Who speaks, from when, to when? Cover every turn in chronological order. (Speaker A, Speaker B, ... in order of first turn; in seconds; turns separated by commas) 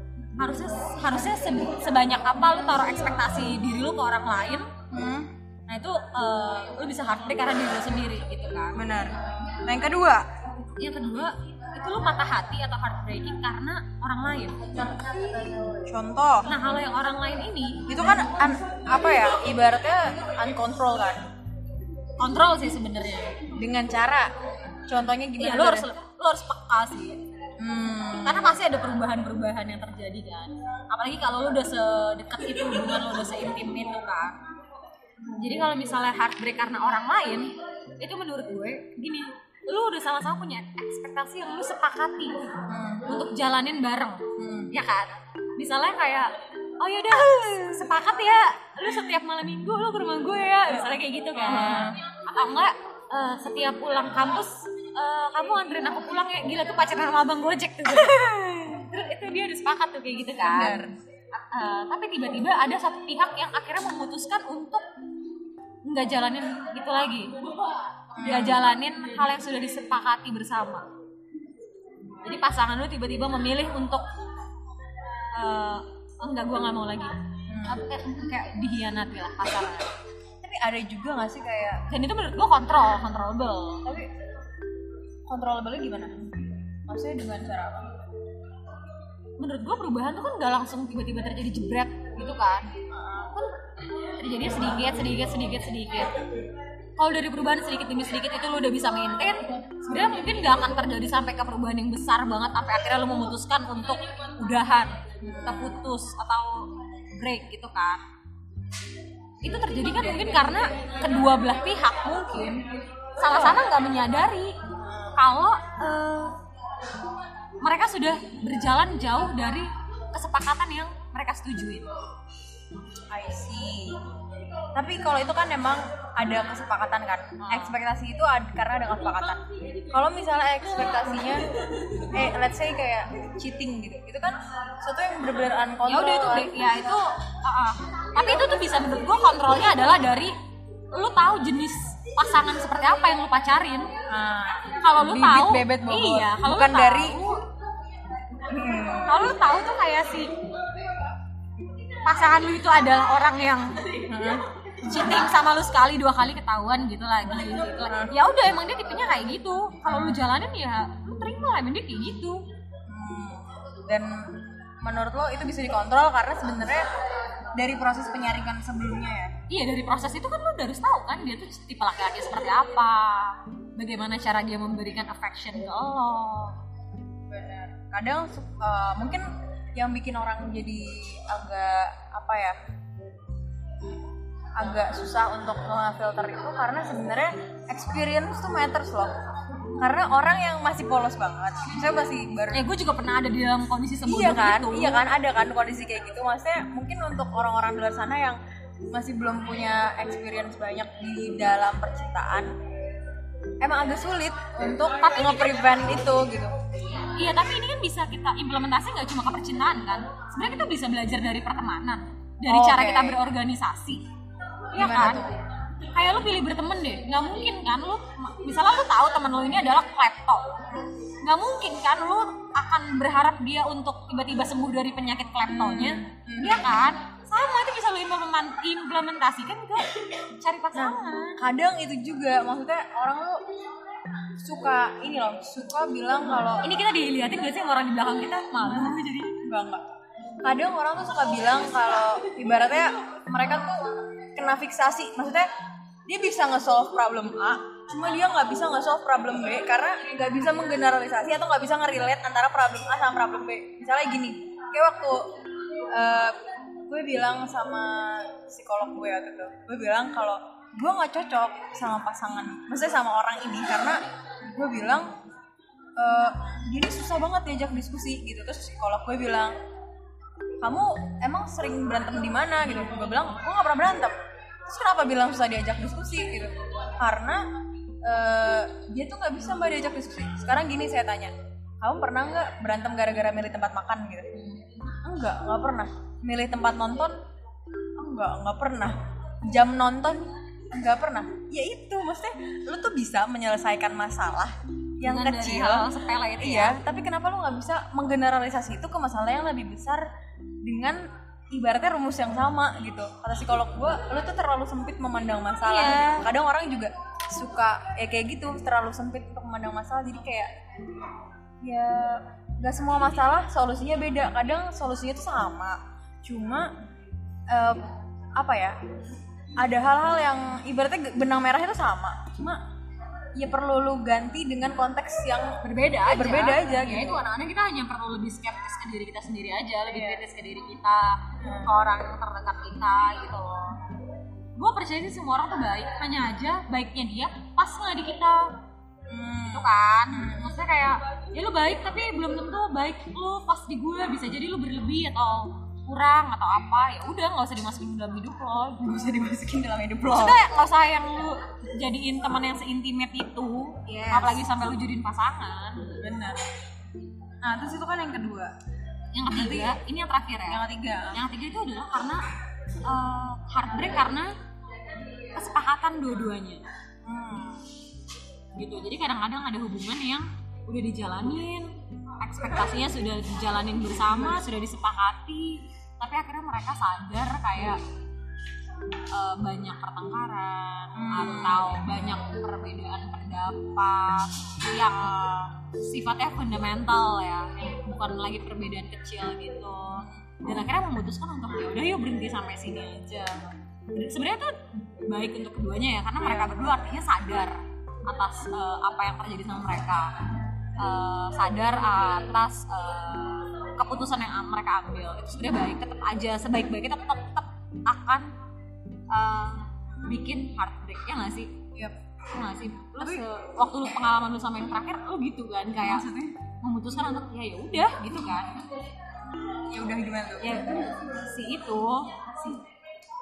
Speaker A: 0.4-4.7, Speaker B: 4.9-5.3, Speaker A: 5.7-8.8, Speaker B: 8.8-10.3, Speaker A: 10.8-15.0, Speaker B: 15.0-16.5, Speaker A: 16.5-17.9, Speaker B: 17.9-21.2, Speaker A: 22.2-23.5, Speaker B: 23.6-24.3, Speaker B: 24.9-25.9, Speaker A: 25.4-27.2, Speaker B: 27.6-28.6, Speaker A: 28.2-34.4, Speaker A: 35.3-60.8, Speaker B: 42.7-43.1, Speaker B: 44.4-44.7, Speaker B: 51.4-52.0, Speaker B: 60.4-61.0, Speaker A: 61.4-64.8, Speaker A: 65.9-67.4, Speaker B: 68.1-68.7, Speaker A: 68.2-70.8, Speaker A: 72.2-74.0, Speaker A: 75.3-79.9, Speaker B: 77.5-77.8, Speaker B: 80.4-81.8, Speaker A: 81.9-83.9, Speaker B: 83.8-84.1, Speaker B: 85.3-88.0, Speaker A: 89.4-92.8, Speaker B: 92.9-93.4, Speaker A: 94.1-96.2, Speaker A: 97.0-108.0, Speaker B: 105.2-105.8, Speaker A: 109.4-114.6, Speaker B: 113.3-113.6, Speaker B: 114.8-115.1, Speaker A: 115.2-116.3, Speaker A: 117.6-121.9, Speaker B: 123.1-124.0, Speaker B: 124.7-136.5, Speaker A: 127.4-127.8, Speaker A: 135.8-140.3, Speaker A: 140.9-144.0, Speaker B: 144.1-147.2, Speaker A: 144.8-147.4, Speaker B: 148.4-149.3, Speaker A: 149.1-150.4, Speaker A: 152.0-154.0, Speaker B: 154.0-154.5, Speaker A: 154.8-162.4, Speaker B: 157.9-158.1, Speaker B: 159.9-160.3, Speaker B: 162.9-166.9, Speaker B: 167.6-169.3, Speaker A: 169.5-176.6, Speaker B: 177.3-182.6, Speaker B: 184.6-189.2, Speaker B: 189.8-192.7, Speaker A: 192.5-195.0, Speaker B: 194.0-198.4, Speaker B: 198.9-202.5, Speaker B: 203.6-206.6, Speaker A: 206.9-214.0, Speaker B: 212.5-213.2, Speaker A: 214.7-215.3, Speaker B: 214.8-215.4, Speaker A: 215.9-231.4, Speaker B: 225.5-226.7, Speaker B: 230.8-233.5, Speaker B: 234.4-236.7, Speaker A: 236.6-239.3, Speaker B: 239.4-239.8, Speaker B: 240.4-245.5, Speaker B: 246.1-255.2, Speaker B: 255.9-265.1, Speaker B: 266.0-269.6, Speaker B: 270.6-274.2, Speaker B: 274.7-277.4, Speaker B: 278.0-284.4, Speaker B: 285.0-287.2, Speaker B: 288.0-300.1, Speaker A: 295.0-296.8, Speaker B: 300.6-310.5, Speaker A: 305.7-306.3, Speaker B: 311.6-316.7, Speaker B: 317.5-318.8, Speaker B: 319.6-322.6, Speaker B: 323.4-327.2, Speaker A: 325.6-333.8, Speaker B: 329.9-330.2, Speaker B: 331.4-331.7, Speaker A: 334.6-338.5, Speaker B: 339.1-340.6, Speaker A: 339.5-348.9, Speaker B: 348.8-350.4, Speaker A: 350.1-355.9, Speaker B: 353.9-354.5, Speaker B: 356.0-356.4, Speaker B: 357.4-358.5, Speaker A: 359.1-362.2, Speaker B: 359.3-359.8, Speaker B: 360.5-361.2, Speaker A: 362.8-364.3, Speaker A: 365.3-366.6, Speaker B: 367.1-367.7, Speaker A: 368.6-377.8, Speaker A: 379.1-393.4, Speaker B: 380.9-382.0, Speaker A: 393.9-400.2, Speaker B: 396.2-396.6, Speaker A: 400.8-408.3, Speaker A: 409.1-411.6, Speaker A: 412.3-418.6, Speaker B: 413.0-413.2, Speaker B: 415.8-416.4, Speaker B: 419.7-420.6, Speaker A: 420.4-422.6